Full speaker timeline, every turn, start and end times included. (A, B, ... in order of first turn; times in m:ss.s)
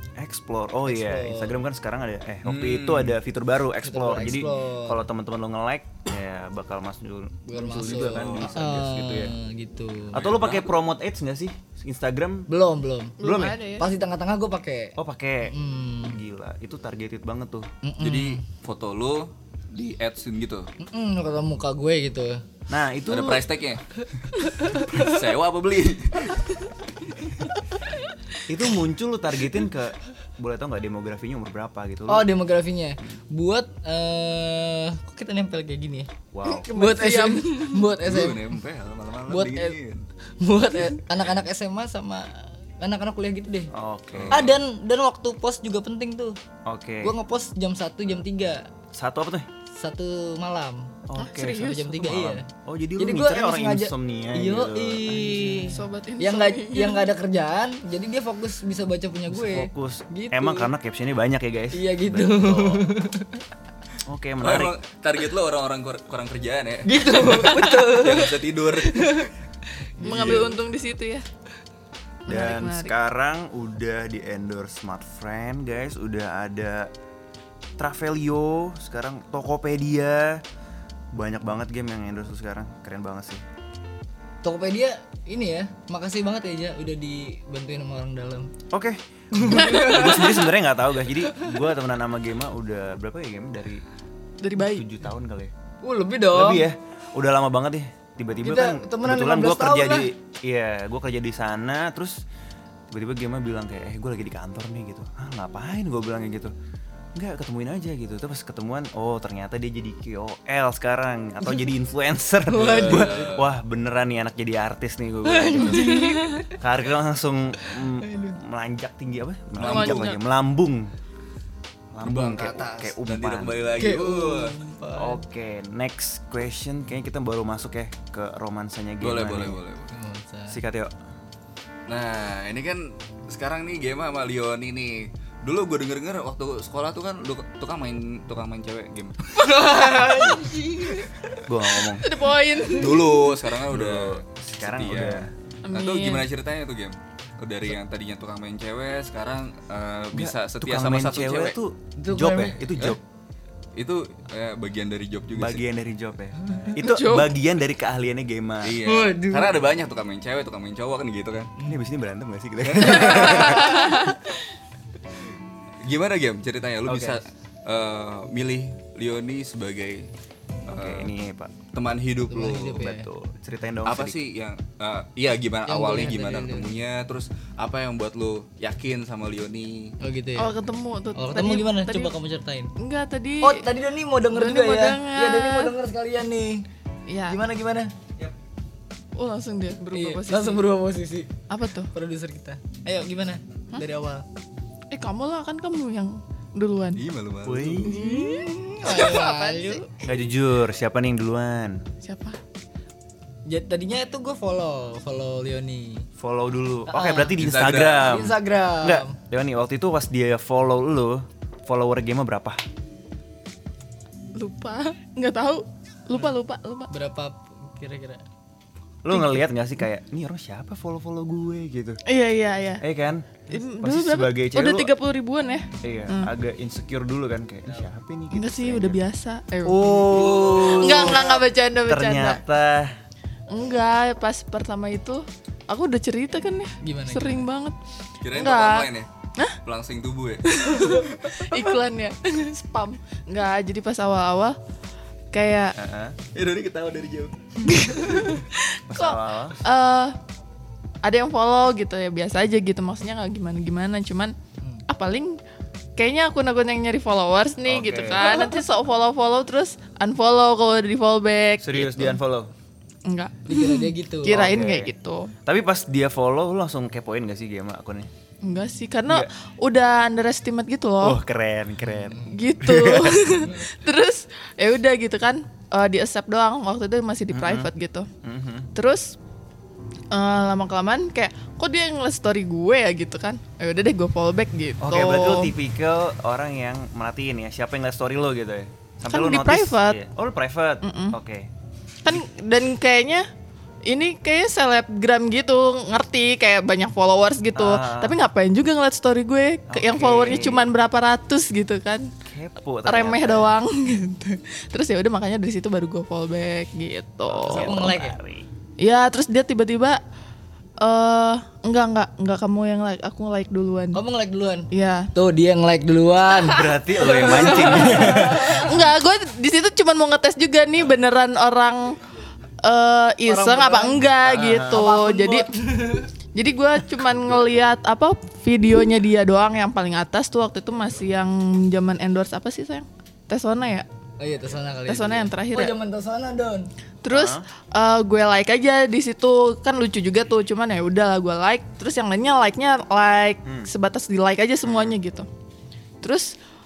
0:00.2-0:09.3 A
0:00.8-0:01.6 B
0:02.4-0:03.2 C
0:03.8-0:05.0 B
0:07.5-0:10.2 B
0:07.9-0:08.6 C
0:10.1-0:12.5 A
0:10.2-0:10.7 C
0:12.5-0:13.2 B
0:13.2-0:13.6 A
0:13.2-0:13.9 D
0:13.8-0:16.2 B
0:15.0-0:17.7 A
0:17.8-0:18.4 B
0:18.0-0:20.7 C
0:20.8-0:22.4 B
0:22.7-0:23.4 A
0:23.1-0:23.8 C
0:24.6-0:25.0 B
0:24.8-0:26.5 C
0:28.5-0:32.3 A
0:32.1-0:38.5 B
0:36.3-0:36.7 A
0:36.7-0:37.8 D
0:38.0-0:40.0 C
0:39.3-0:39.8 B
0:40.4-0:43.7 B
0:43.7-0:44.5 A
0:44.1-0:44.5 C
0:44.3-0:46.3 B
0:46.6-0:47.1 A
0:47.0-0:48.7 B
0:48.9-0:49.5 A
0:49.8-0:50.9 B
0:51.0-0:55.7 A
0:51.2-0:51.9 D
0:51.4-0:52.5 B
0:53.0-1:00.7 B
0:55.7-0:57.1 D
0:59.3-1:02.8 A
1:01.7-1:03.4 B
1:04.0-1:04.7 A
1:04.4-1:09.2 C
1:06.8-1:09.3 B
1:10.0-1:10.6 A
1:10.0-1:11.2 D
1:10.0-1:10.4 C
1:12.2-1:12.9 D
1:12.3-1:16.9 A
1:17.8-1:20.4 A
1:21.1-1:23.4 A
1:24.4-1:28.5 B
1:28.7-1:33.8 A
1:29.3-1:30.4 B
1:34.4-1:34.8 D
1:34.5-1:35.5 A
1:35.8-1:36.6 B
1:36.3-1:42.2 A
1:38.4-1:40.1 B
1:42.9-1:46.5 A
1:47.1-2:00.9 A
1:52.5-1:53.3 B
1:52.6-1:53.5 C
1:55.2-1:56.4 B
1:55.7-1:56.4 D
1:58.0-1:58.4 B
1:59.6-2:00.1 C
1:59.6-2:00.2 D
2:01.9-2:03.7 A
2:02.0-2:04.5 C
2:03.8-2:05.2 B
2:05.0-2:09.6 A
2:09.0-2:09.9 C
2:09.9-2:10.6 B
2:10.5-2:10.9 A
2:11.9-2:19.8 C
2:19.4-2:21.1 B
2:21.4-2:22.1 A
2:22.0-2:23.3 D
2:22.6-2:31.6 C
2:23.7-2:25.3 A
2:25.6-2:26.3 D
2:30.1-2:33.0 A
2:32.0-2:32.6 B
2:33.8-2:35.6 C
2:35.3-2:38.8 A
2:36.8-2:37.3 D
2:38.6-2:41.5 C
2:38.8-2:39.6 B
2:41.6-2:44.1 A
2:42.7-2:43.7 C
2:43.6-2:44.2 D
2:45.8-2:50.1 C
2:46.8-2:47.2 A
2:50.7-2:51.1 C
2:50.7-2:51.5 A
2:51.7-2:52.8 C
2:52.3-2:53.1 B
2:52.8-2:54.2 A
2:53.8-3:00.0 C
2:55.7-2:56.8 B
3:00.0-3:00.5 B
3:00.4-3:02.1 D
3:01.1-3:02.7 B
3:02.8-3:03.7 D
3:03.4-3:06.6 B
3:04.3-3:05.7 D
3:07.1-3:07.4 D
3:07.3-3:08.2 B
3:09.2-3:10.7 D
3:09.9-3:11.3 B
3:11.5-3:11.9 D
3:11.9-3:14.2 B
3:14.9-3:17.0 D
3:16.9-3:17.9 C
3:17.4-3:18.0 A
3:17.9-3:19.9 D
3:17.9-3:19.8 B
3:20.0-3:21.8 A
3:22.0-3:22.4 D
3:23.5-3:26.0 B
3:26.2-3:32.6 A
3:26.9-3:27.4 B
3:27.4-3:28.2 C
3:28.0-3:29.1 B
3:34.3-3:36.9 D
3:36.9-3:38.2 B
3:39.0-3:42.0 A
3:39.1-3:39.4 D
3:42.1-3:42.8 D
3:42.8-3:44.9 A
3:43.5-3:46.3 D
3:45.8-3:49.0 A
3:48.3-3:52.4 D
3:49.6-3:52.9 A
3:50.1-3:51.1 C
3:53.5-3:57.8 D
3:56.8-3:57.4 B
3:58.2-3:59.1 C
3:58.3-3:59.6 D
3:59.6-4:01.6 C
4:00.5-4:04.6 D
4:05.3-4:05.7 D
4:05.8-4:06.2 A
4:06.3-4:08.2 C
4:07.6-4:10.2 D
4:08.9-4:09.6 A
4:11.0-4:14.3 D
4:14.9-4:15.4 D
4:16.0-4:22.2 D
4:17.6-4:18.4 A
4:18.3-4:18.6 B
4:21.6-4:22.5 A
4:23.0-4:25.3 D
4:23.5-4:24.6 B
4:24.2-4:24.9 A
4:25.4-4:28.1 A
4:28.4-4:31.2 D
4:31.0-4:33.5 A
4:31.9-4:32.4 B
4:32.3-4:38.1 D
4:37.3-4:37.7 A
4:38.2-4:38.7 A
4:38.7-4:39.2 D
4:40.1-4:45.5 D
4:44.8-4:51.5 A
4:49.1-4:50.0 D
4:50.8-4:51.2 D
4:52.0-4:53.3 D
4:53.8-5:02.1 D
4:57.5-4:58.2 A
4:59.7-5:00.7 A
5:02.2-5:03.6 A
5:02.8-5:07.8 D
5:07.3-5:08.5 A
5:07.5-5:08.2 B
5:08.8-5:10.0 D
5:10.8-5:14.0 D
5:13.9-5:18.7 B
5:14.7-5:15.1 D
5:16.3-5:18.8 A
5:17.1-5:22.0 D
5:22.6-5:25.5 D
5:23.2-5:26.1 B
5:24.3-5:24.8 A
5:26.3-5:33.9 D
5:34.2-5:36.7 B
5:34.8-5:35.7 D
5:37.0-5:45.3 D
5:37.1-5:37.4 A
5:43.4-5:43.7 A
5:44.6-5:45.0 A
5:46.0-5:46.3 D